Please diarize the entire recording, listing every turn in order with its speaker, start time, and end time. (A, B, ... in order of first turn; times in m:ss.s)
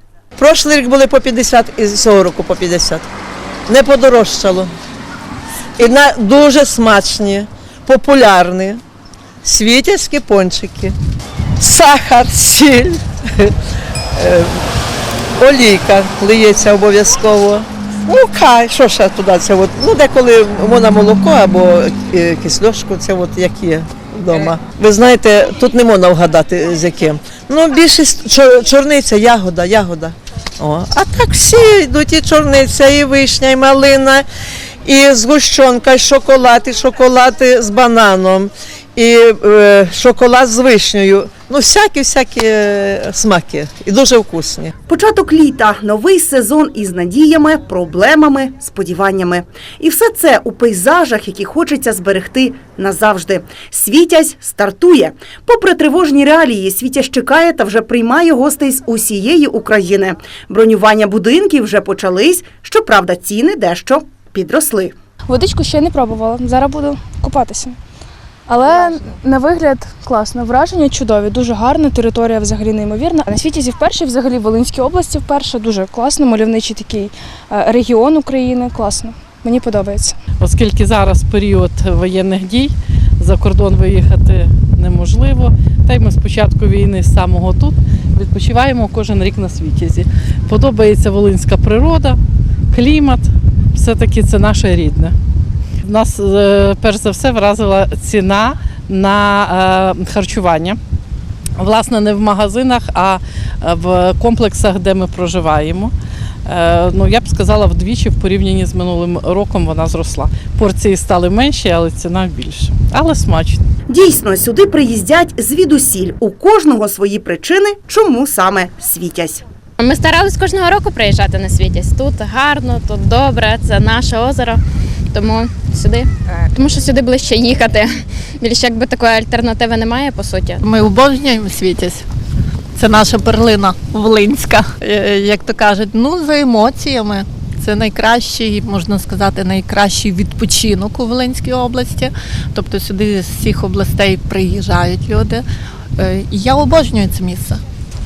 0:00.4-0:03.0 A
0:03.7-0:04.7 A
0:05.8-0:08.8 A
0:09.4-0:10.9 A
0:11.6-0:13.5 A
0:14.2-0:14.6 A
0:15.4-0:34.2 A
0:34.8-0:44.7 A
0:44.9-1:04.9 B
1:05.3-1:07.8 C
1:08.5-1:20.2 C
1:20.4-1:32.2 D
1:32.7-1:35.1 D
1:35.8-1:40.8 D
1:41.6-1:45.9 D
1:46.5-1:53.6 D
1:53.9-1:59.4 B
1:59.8-2:04.6 E
2:05.1-2:10.6 E
2:10.6-2:12.0 F
2:12.8-2:25.4 F
2:26.0-2:27.6 F